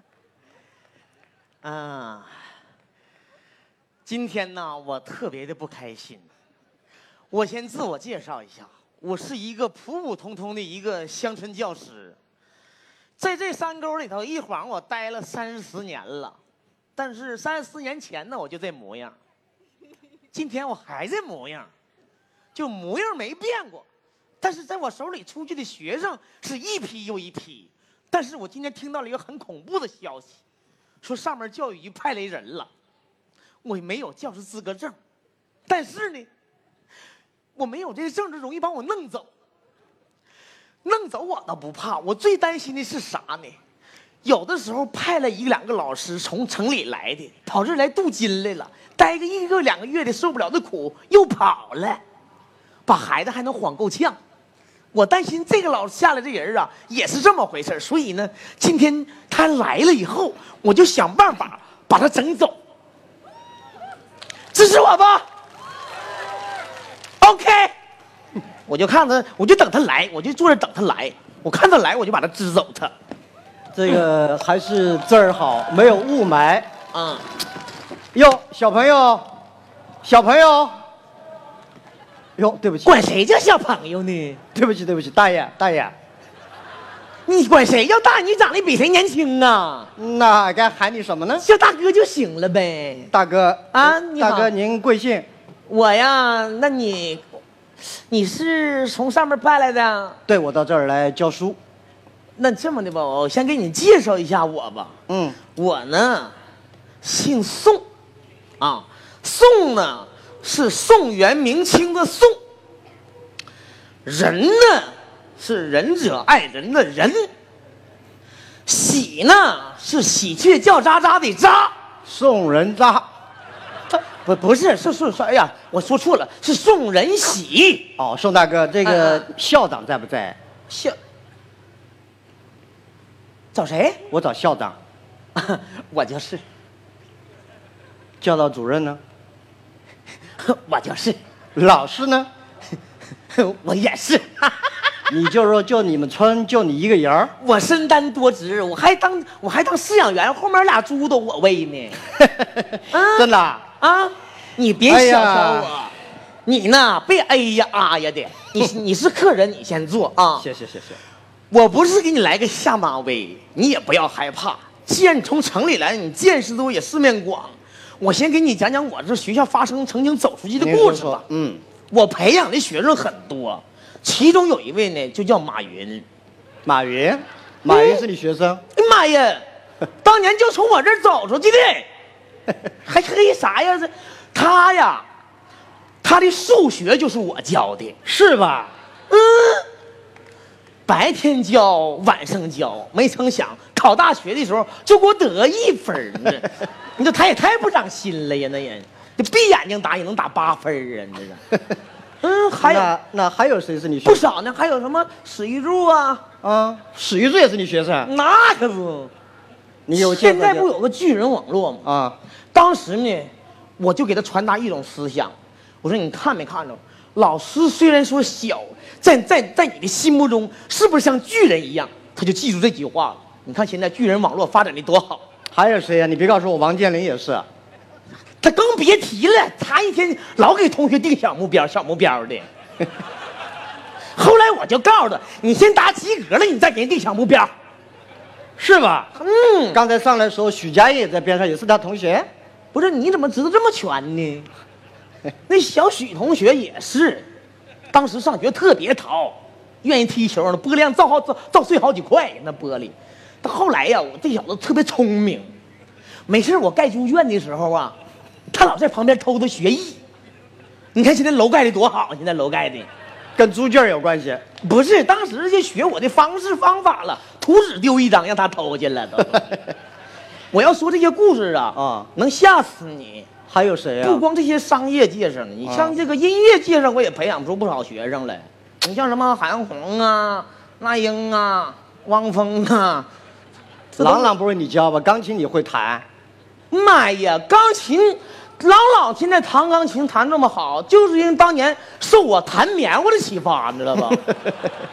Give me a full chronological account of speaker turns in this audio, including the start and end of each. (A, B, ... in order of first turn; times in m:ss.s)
0:01.6-0:02.5 A
0:04.0-0:06.3 A
0:07.3-0:12.2 A
0:13.2-0:16.4 A
0:17.0-0:19.2 A
0:20.3-0:21.7 A
0:22.5-0:23.8 A
0:24.4-0:30.4 A
0:31.0-0:32.7 A
0:33.6-0:35.0 A
0:35.7-0:36.3 A
0:37.6-0:39.3 A
0:40.8-0:43.6 A
0:44.2-0:52.0 A
0:52.8-0:54.2 A
0:54.9-1:02.6 A
1:04.5-1:05.2 A
1:07.2-1:07.7 A
1:08.7-1:12.9 A
1:13.7-1:16.7 B
1:16.9-1:17.2 A
1:18.1-1:19.2 B
1:20.0-1:20.8 B
1:22.4-1:23.0 B
1:22.8-1:24.4 A
1:24.5-1:25.9 B
1:27.2-1:29.9 A
1:30.0-1:31.5 B
1:31.4-1:33.1 A
1:33.1-1:35.3 B
1:33.7-1:34.5 A
1:35.7-1:37.2 A
1:37.8-1:40.2 A
1:40.3-1:41.6 B
1:42.4-1:45.0 A
1:45.1-1:45.4 B
1:45.5-1:46.3 A
1:47.0-1:47.8 A
1:48.6-1:52.4 A
1:54.0-1:57.3 A
1:58.6-2:01.7 A
2:02.0-2:03.1 B
2:03.9-2:07.9 A
2:08.0-2:10.4 B
2:08.8-2:09.2 A
2:10.7-2:11.0 A
2:13.5-2:14.0 A
2:14.1-2:14.8 B
2:15.3-2:16.4 A
2:18.2-2:19.0 B
2:20.4-2:21.2 A
2:21.5-2:22.3 B
2:23.3-2:25.0 A
2:25.1-2:27.3 B
2:27.4-2:32.0 A
2:32.2-2:33.6 B
2:32.9-2:35.9 A
2:34.9-2:35.7 B
2:36.4-2:40.4 A
2:40.4-2:41.0 B
2:41.5-2:51.2 A
2:50.6-2:51.6 B
2:51.9-2:56.0 A
2:56.6-2:58.6 B
2:57.6-2:58.0 A
2:58.7-2:59.4 A
3:00.0-3:01.9 A
3:02.8-3:05.0 A
3:06.0-3:08.0 A
3:08.0-3:08.7 B
3:09.1-3:09.6 A
3:10.8-3:21.4 A
3:22.2-3:22.9 A
3:22.6-3:24.2 B
3:24.0-3:26.2 A
3:26.4-3:28.1 B
3:28.0-3:29.1 A
3:29.8-3:30.7 B
3:29.9-3:31.8 A
3:31.8-3:32.2 B
3:32.5-3:45.2 A
3:45.5-3:47.4 B
3:48.4-3:52.5 A
3:54.1-3:57.5 A
3:58.6-3:59.1 B
3:59.2-3:59.8 A
3:59.7-4:02.3 B
4:02.7-4:04.5 A
4:05.5-4:07.2 A
4:07.9-4:15.5 A
4:16.3-4:18.0 A
4:18.5-4:20.0 A
4:20.9-4:22.9 A
4:23.4-4:24.4 B
4:24.6-4:29.5 A
4:30.5-4:33.3 A
4:31.7-4:32.1 B
4:33.5-4:34.2 B
4:34.0-4:43.1 A
4:35.6-4:35.9 B
4:44.0-4:44.3 A
4:44.0-4:46.0 B
4:46.7-4:54.4 A